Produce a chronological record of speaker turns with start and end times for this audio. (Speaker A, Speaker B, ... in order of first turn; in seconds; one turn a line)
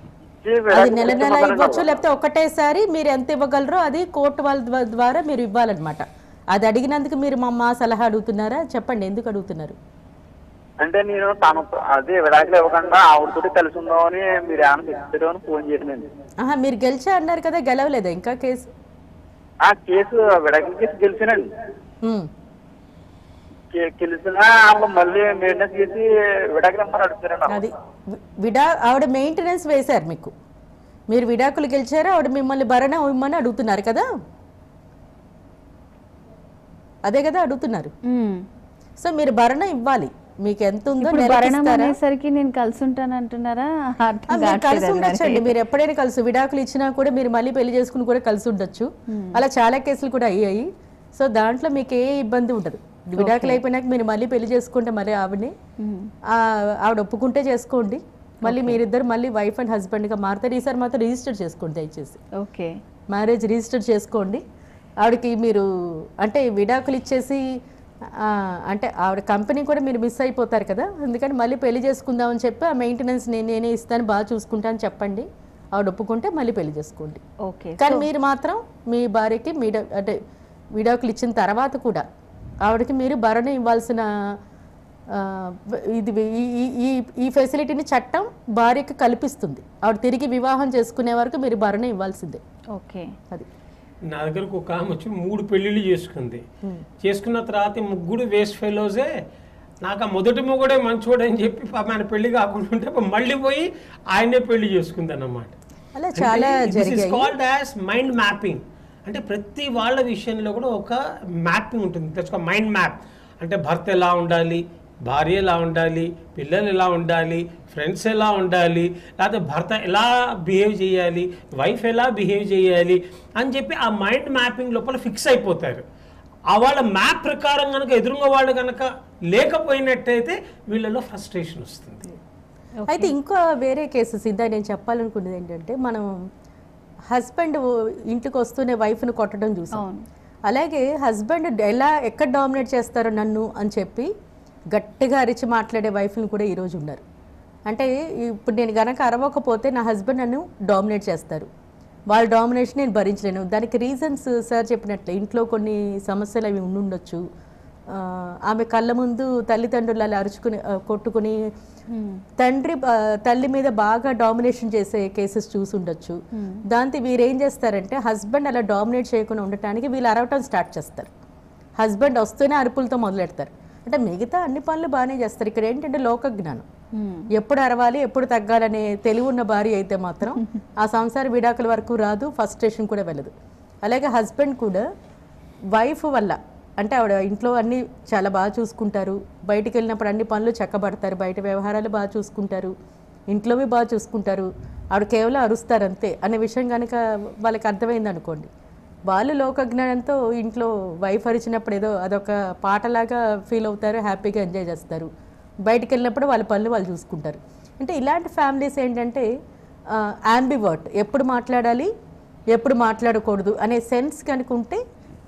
Speaker A: 0.4-1.8
Speaker B: 0.7-9.8
Speaker A: 10.8-16.1
Speaker B: 16.4-18.7
Speaker A: 19.6-21.5
Speaker B: 22.0-22.3
Speaker A: 23.7-27.6
Speaker B: 27.5-30.3
Speaker B: 31.1-34.1
Speaker B: 37.0-37.9
Speaker C: 38.1-38.5
Speaker B: 39.0-42.0
Speaker C: 41.0-45.5
Speaker B: 44.3-55.5
Speaker C: 49.1-49.4
Speaker C: 53.2-53.6
Speaker C: 55.8-56.1
Speaker B: 56.3-62.2
Speaker C: 58.5-58.8
Speaker C: 62.4-62.8
Speaker B: 63.1-64.4
Speaker B: 65.0-67.5
Speaker B: 68.1-77.2
Speaker C: 77.4-78.1
Speaker B: 77.8-80.2
Speaker B: 80.8-82.0
Speaker B: 82.6-84.4
Speaker B: 85.1-92.4
Speaker C: 92.7-93.2
Speaker D: 94.1-96.4
Speaker D: 97.0-99.2
Speaker D: 99.8-105.5
Speaker B: 106.0-107.3
Speaker D: 106.2-125.8
Speaker D: 126.5-132.1
Speaker C: 132.8-133.1
Speaker B: 132.9-136.1
Speaker B: 137.1-139.8
Speaker C: 139.7-140.0
Speaker B: 140.5-144.1
Speaker B: 144.7-147.0
Speaker B: 147.7-151.5
Speaker B: 152.1-157.2
Speaker B: 157.9-161.5
Speaker C: 161.9-162.2
Speaker B: 162.4-171.1
Speaker C: 166.3-166.6
Speaker B: 171.8-176.7
Speaker C: 176.9-177.3
Speaker B: 177.3-184.9
Speaker B: 185.7-192.8
Speaker B: 193.3-198.5
Speaker B: 199.1-205.1
Speaker B: 205.7-209.3
Speaker B: 209.9-211.9
Speaker B: 212.5-214.8